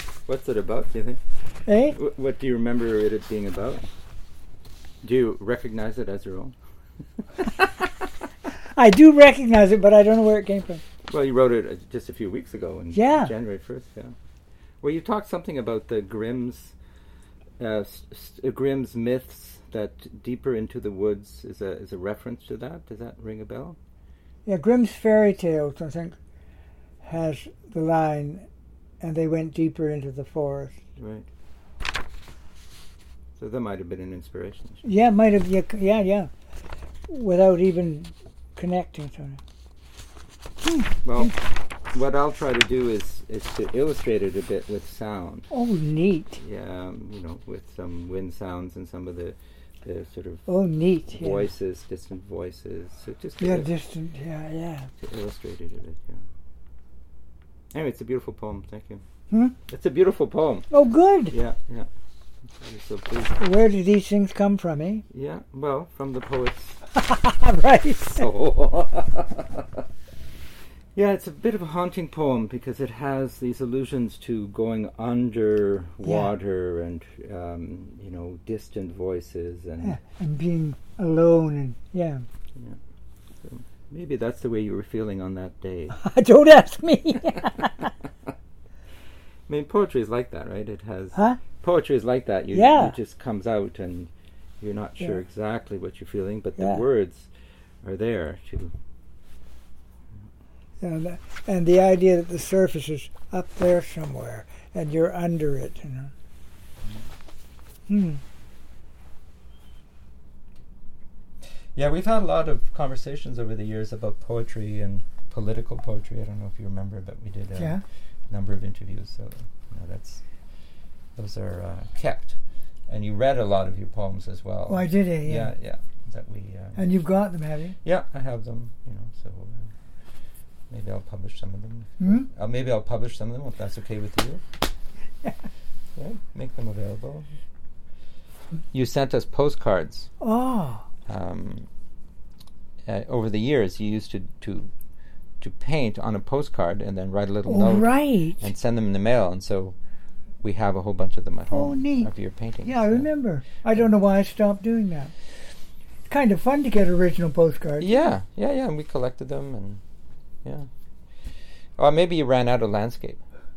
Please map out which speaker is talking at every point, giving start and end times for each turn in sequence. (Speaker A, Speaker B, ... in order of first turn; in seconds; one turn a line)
Speaker A: 0.2-1.2
Speaker B: 1.6-2.0
Speaker A: 1.9-3.9
Speaker A: 5.0-6.5
Speaker A: 7.4-7.9
Speaker B: 8.7-10.8
Speaker A: 11.1-14.1
Speaker B: 12.9-13.3
Speaker A: 14.8-16.7
Speaker A: 17.6-23.8
Speaker B: 24.4-26.1
Speaker B: 27.0-28.4
Speaker B: 29.0-30.8
Speaker A: 31.0-31.3
Speaker A: 33.4-34.8
Speaker B: 34.8-36.3
Speaker B: 37.1-39.4
Speaker B: 40.6-41.3
Speaker A: 41.0-41.4
Speaker A: 41.9-45.5
Speaker B: 45.5-46.4
Speaker A: 46.4-50.5
Speaker B: 50.5-51.5
Speaker A: 51.1-53.7
Speaker B: 53.4-54.9
Speaker A: 55.0-56.2
Speaker A: 57.7-59.0
Speaker A: 59.7-60.7
Speaker B: 60.7-61.3
Speaker A: 61.3-61.9
Speaker A: 62.5-63.4
Speaker B: 63.4-65.0
Speaker A: 65.1-66.8
Speaker B: 66.9-68.3
Speaker A: 68.2-69.8
Speaker A: 70.9-80.0
Speaker B: 76.0-76.3
Speaker B: 79.8-82.2
Speaker A: 83.4-86.0
Speaker B: 85.9-87.9
Speaker A: 89.5-97.3
Speaker B: 91.1-91.4
Speaker B: 92.5-93.0
Speaker B: 96.6-96.8
Speaker A: 97.8-98.7
Speaker B: 100.8-106.1
Speaker B: 107.9-108.2
Speaker A: 111.7-117.8
Speaker B: 117.5-117.8
Speaker A: 118.3-120.2
Speaker A: 121.2-126.8
Speaker B: 124.7-125.5
Speaker B: 126.8-127.8
Speaker A: 127.8-129.7
Speaker A: 130.7-134.4
Speaker B: 132.0-132.3
Speaker A: 135.9-137.3
Speaker A: 138.7-140.1
Speaker B: 140.2-140.8
Speaker A: 141.1-141.7
Speaker A: 142.9-144.7
Speaker A: 145.4-149.8
Speaker B: 147.4-148.4
Speaker A: 150.4-153.1
Speaker B: 151.5-152.1
Speaker B: 152.6-155.1
Speaker B: 156.1-158.0
Speaker A: 157.8-159.8
Speaker A: 161.8-163.2